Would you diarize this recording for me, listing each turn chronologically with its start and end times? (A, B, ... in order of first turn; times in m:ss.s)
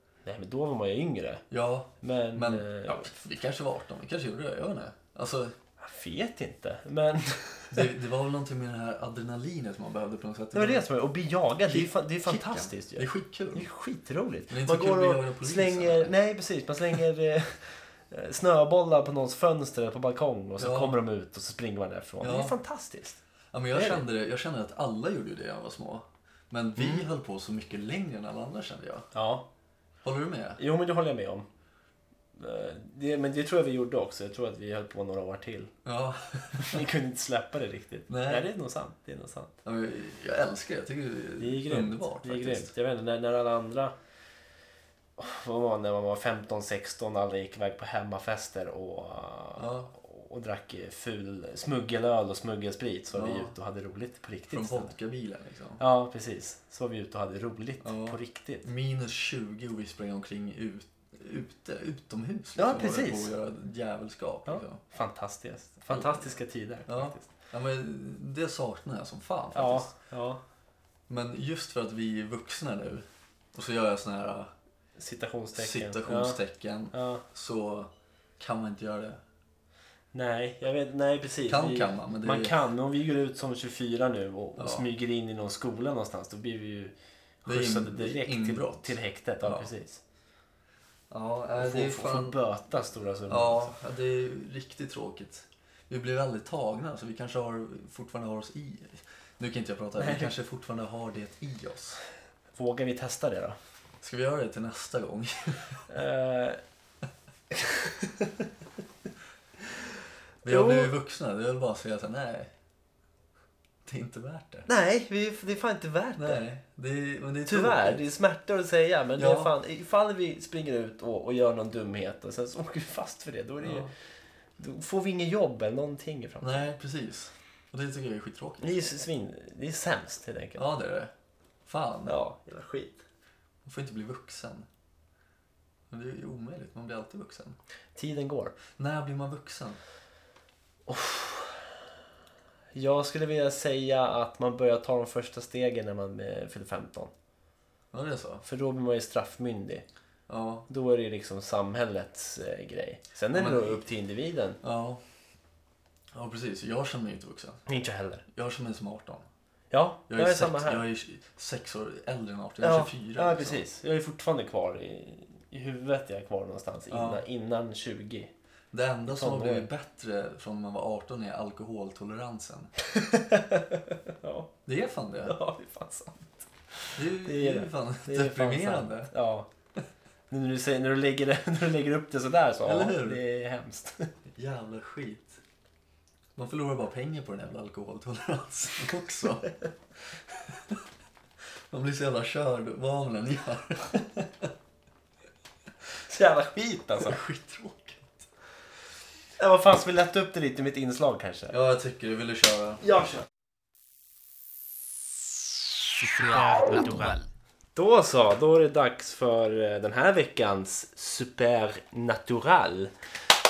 0:00.2-0:01.4 A
0:01.5-0:05.5 B
0:02.0-0:03.1 A
0:05.8-0:07.8 A
0:07.7-0:10.8 B
0:10.5-0:23.2 A
0:11.7-0:13.7 B
0:14.5-0:16.2 B
0:20.6-0:21.0 B
0:22.2-0:22.6 B
0:23.5-0:29.1 B
0:23.7-0:24.0 A
0:26.8-0:27.0 A
0:29.1-0:29.5 A
0:30.0-0:30.6 B
0:30.6-0:31.5 A
0:32.4-0:35.7 A
0:35.8-0:36.8 B
0:36.6-0:39.5 A
0:38.1-0:38.5 B
0:39.6-0:42.7 B
0:41.4-0:43.9 A
0:45.2-0:54.9 A
0:49.6-0:49.9 B
0:53.1-0:53.5 B
0:54.5-0:55.8 B
0:55.8-0:58.6 A
0:57.8-1:04.8 B
1:02.6-1:03.3 A
1:04.5-1:07.3 A
1:05.8-1:06.3 B
1:06.9-1:09.9 B
1:09.6-1:10.4 A
1:11.1-1:14.5 B
1:15.0-1:16.4 A
1:15.5-1:19.2 B
1:16.9-1:17.2 A
1:20.1-1:30.0 A
1:21.5-1:22.6 B
1:24.6-1:24.9 B
1:27.5-1:29.7 B
1:31.1-1:32.4 B
1:31.6-1:33.7 A
1:33.3-1:42.0 B
1:40.0-1:40.3 A
1:42.6-1:43.6 A
1:44.0-1:45.8 B
1:45.9-1:46.6 A
1:47.5-1:48.5 A
1:50.4-1:52.5 B
1:50.4-1:50.9 A
1:53.8-1:54.7 B
1:54.7-1:56.4 A
1:56.2-1:58.0 B
1:57.5-2:03.9 A
1:59.2-1:59.5 B
2:03.6-2:03.9 B
2:04.6-2:06.7 A
2:06.4-2:08.8 B
2:08.6-2:10.6 A
2:10.6-2:11.1 B
2:11.7-2:12.2 B
2:12.1-2:13.0 A
2:13.6-2:14.7 B
2:15.9-2:17.6 B
2:18.0-2:18.6 A
2:18.8-2:19.8 B
2:20.9-2:21.6 A
2:22.7-2:27.1 A
2:27.9-2:28.4 B
2:28.4-2:29.8 A
2:30.3-2:30.7 B
2:30.7-2:34.6 A
2:33.3-2:33.8 B
2:34.6-2:35.0 B
2:36.1-2:37.6 B
2:37.7-2:38.2 A
2:38.3-2:39.3 B
2:39.7-2:40.8 A
2:40.1-2:43.6 B
2:42.6-2:48.3 A
2:46.9-2:47.2 B
2:48.7-2:52.7 B
2:49.1-2:49.7 A
2:52.9-2:54.5 A
2:54.7-2:55.4 B
2:55.2-2:59.5 A
2:57.0-2:59.1 B
3:00.3-3:04.1 A
3:02.6-3:03.2 B
3:04.4-3:05.4 B
3:06.4-3:09.5 B
3:10.5-3:10.8 B
3:11.7-3:14.5 B
3:16.1-3:17.2 A
3:17.0-3:18.2 B
3:19.4-3:21.6 A
3:21.5-3:22.8 B
3:22.8-3:23.2 A
3:26.1-3:27.2 A
3:27.8-3:32.9 A